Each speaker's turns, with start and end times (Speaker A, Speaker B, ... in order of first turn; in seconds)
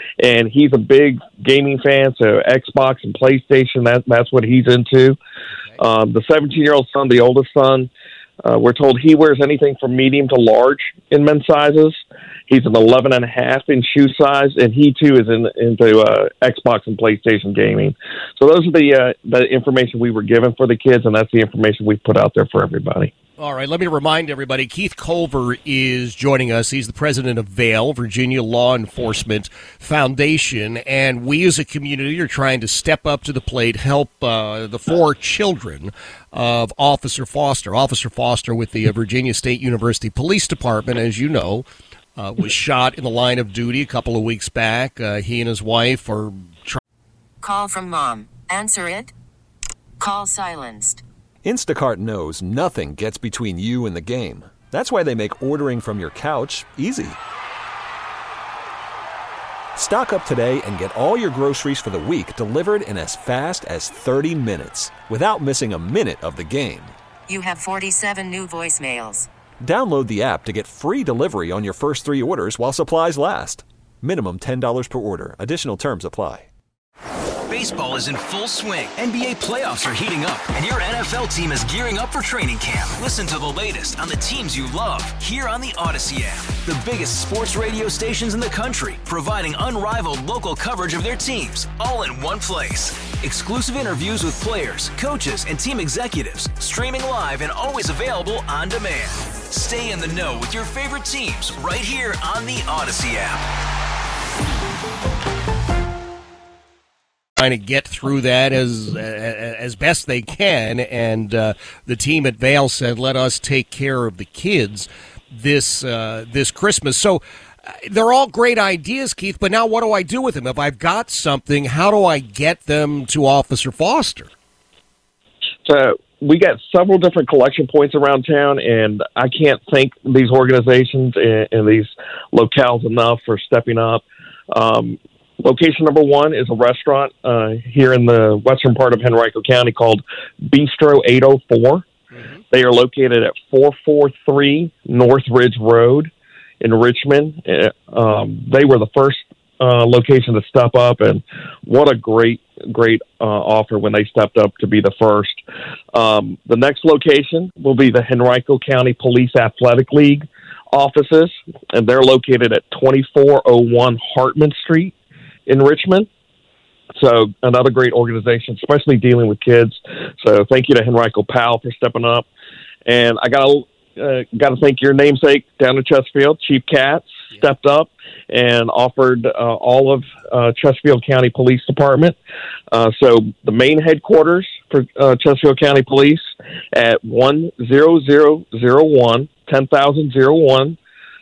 Speaker A: 0.2-5.2, 5.8-7.9, 8.4-12.0, 12.5-23.1, 125.6-141.8, 142.5-146.1, 146.6-155.4, 155.9-164.9, 165.5-166.1, 167.0-172.2, 172.8-182.2, 182.7-190.8
Speaker B: 23.4-46.8, 107.4-124.3
Speaker C: 47.4-49.1, 50.0-51.0, 67.3-69.3
Speaker D: 51.4-57.2, 59.8-67.0, 69.6-76.5
Speaker E: 77.5-103.4